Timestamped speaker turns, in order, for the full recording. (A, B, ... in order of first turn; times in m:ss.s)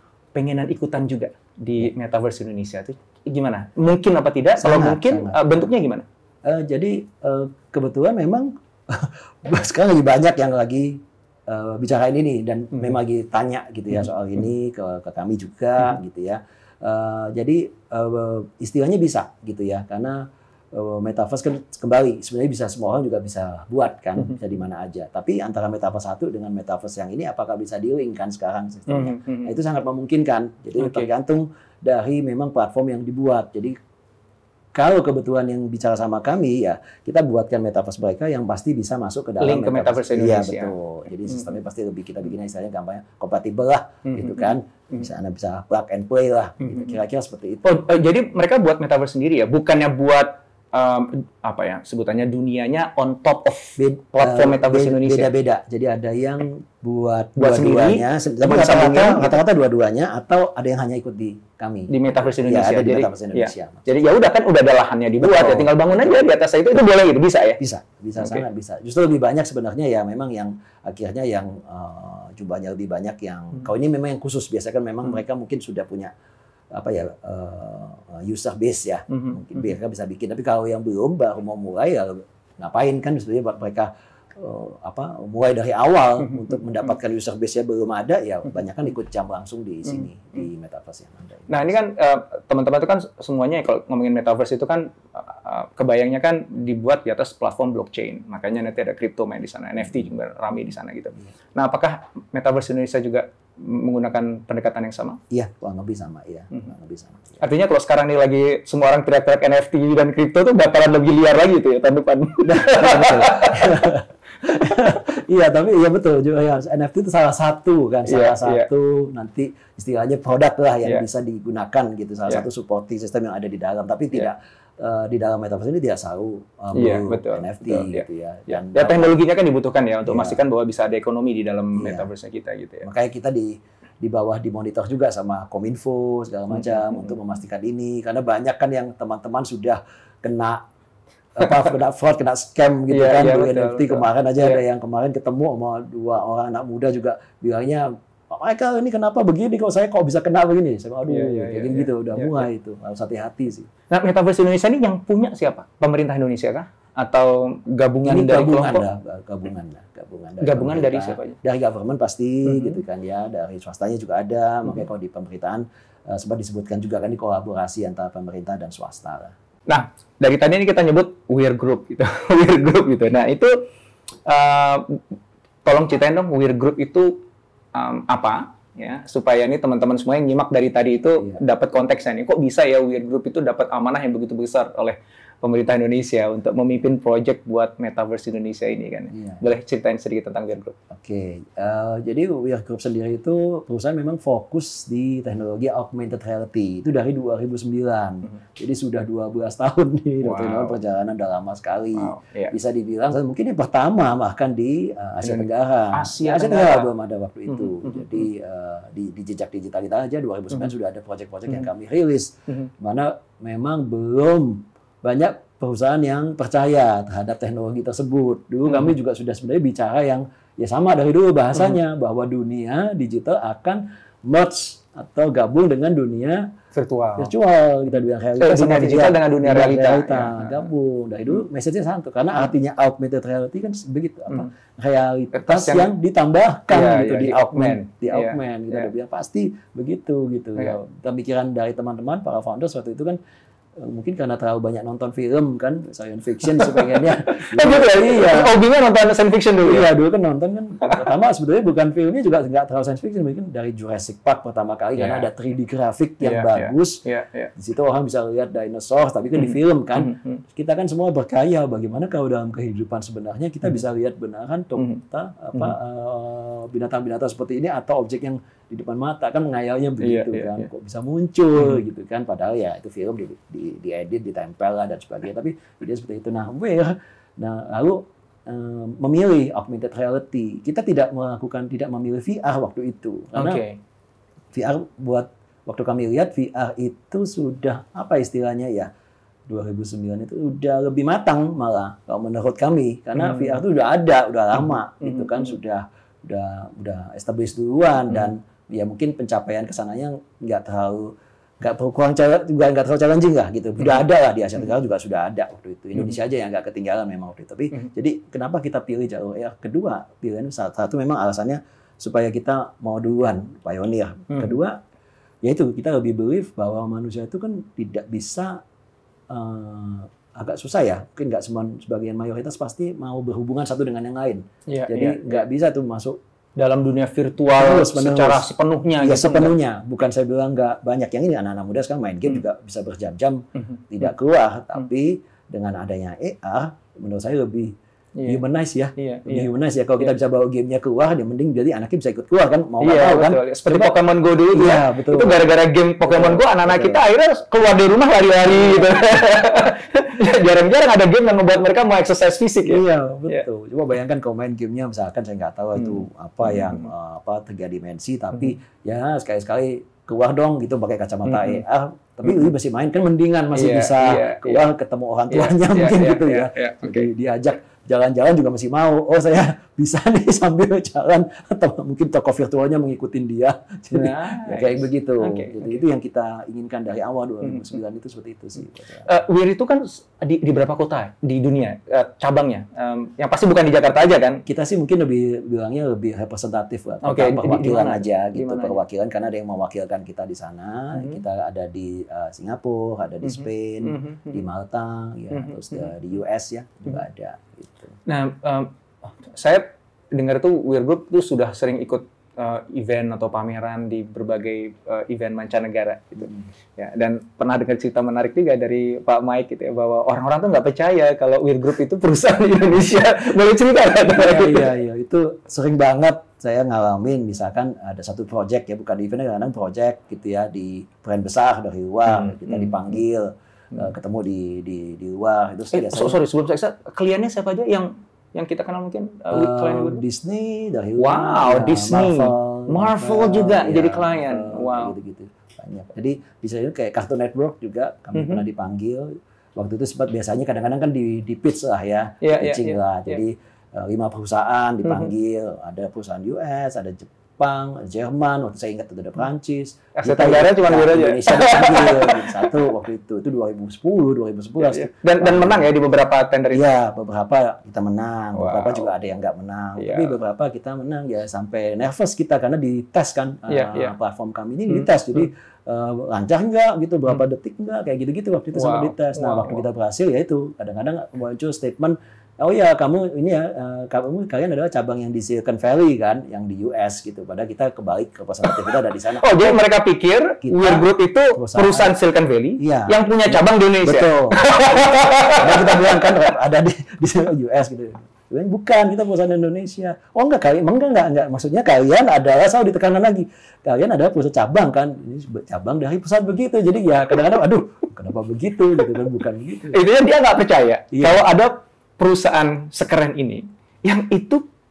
0:00.3-0:06.0 A
0:04.6-0:05.7 B
0:06.4-0:20.2 B
0:20.7-0:33.7 B
0:28.9-0:29.5 A
0:30.8-0:31.1 A
0:34.7-0:47.8 B
0:39.4-0:40.7 A
0:44.0-0:45.0 A
0:46.6-0:46.9 A
0:47.6-0:55.3 A
0:53.8-1:03.9 B
0:57.4-0:59.4 A
1:01.9-1:07.6 A
1:05.2-1:06.3 B
1:07.6-1:16.1 B
1:08.2-1:08.4 A
1:16.7-1:31.7 B
1:19.1-1:19.6 A
1:31.5-1:45.2 A
1:45.3-1:47.4 B
1:47.4-1:53.9 A
1:52.4-2:09.2 B
1:58.0-1:58.7 A
2:06.7-2:12.9 A
2:10.0-2:10.4 B
2:11.8-2:12.1 B
2:12.8-2:20.6 B
2:16.5-2:17.1 A
2:21.3-2:33.7 B
2:22.9-2:24.6 A
2:31.1-2:32.5 A
2:33.9-2:38.8 A
2:38.0-2:49.3 B
2:40.4-2:41.4 A
2:42.4-2:42.8 A
2:49.7-2:53.6 A
2:54.2-2:55.0 A
2:55.6-3:10.7 A
3:09.1-3:09.4 B
3:10.9-3:46.5 B
3:20.2-3:20.8 A
3:22.0-3:22.5 A
3:25.2-3:26.9 A
3:27.5-3:28.3 A
3:38.7-3:38.9 A
3:46.7-3:47.3 A
3:47.2-4:03.2 B
3:48.4-3:50.7 A
3:55.3-3:55.9 A
3:56.7-3:58.9 A
4:03.8-4:08.6 B
4:06.5-4:09.9 A
4:09.6-4:17.0 B
4:15.0-4:15.3 A
4:16.2-4:17.5 A
4:17.6-4:43.6 B
4:19.3-4:20.4 A
4:24.8-4:25.0 A
4:30.0-4:30.7 A
4:43.3-4:43.8 A
4:44.5-4:48.9 B
4:49.5-5:14.8 B
4:53.2-4:53.6 A
4:55.0-4:55.4 A
5:15.4-5:18.6 B
5:19.3-5:26.2 B
5:24.7-5:25.3 A
5:26.6-5:29.5 A
5:27.5-5:28.5 B
5:29.0-5:44.0 B
5:33.6-5:33.8 A
5:39.0-5:39.5 A
5:42.8-5:53.4 A
5:44.5-5:45.4 B
5:46.1-5:47.0 B
5:48.5-5:49.0 B
5:52.6-6:19.1 B
5:55.8-5:56.9 A
6:01.2-6:01.6 A
6:03.5-6:04.7 A
6:05.3-6:07.1 A
6:13.9-6:15.8 A
6:19.0-6:24.4 A
6:24.4-6:38.0 B
6:27.0-6:28.8 A
6:30.9-6:31.2 A
6:33.2-6:34.4 A
6:35.3-6:35.9 A
6:38.0-6:54.7 A
6:46.2-6:46.5 B
6:54.1-7:06.2 B
7:02.1-7:02.9 A
7:05.7-7:10.0 A
7:09.3-7:35.7 B
7:11.0-7:14.9 A
7:18.1-7:18.4 A
7:22.2-7:22.8 A
7:30.0-7:32.7 A
7:34.6-7:36.6 A
7:36.5-7:59.6 B
7:38.3-7:38.9 A
7:39.8-7:40.1 A
7:43.5-7:43.9 A
7:48.5-7:49.6 A
7:59.2-8:06.3 A
8:00.4-8:02.0 B
8:02.6-8:19.8 B
8:19.7-8:24.4 A
8:20.9-8:21.2 B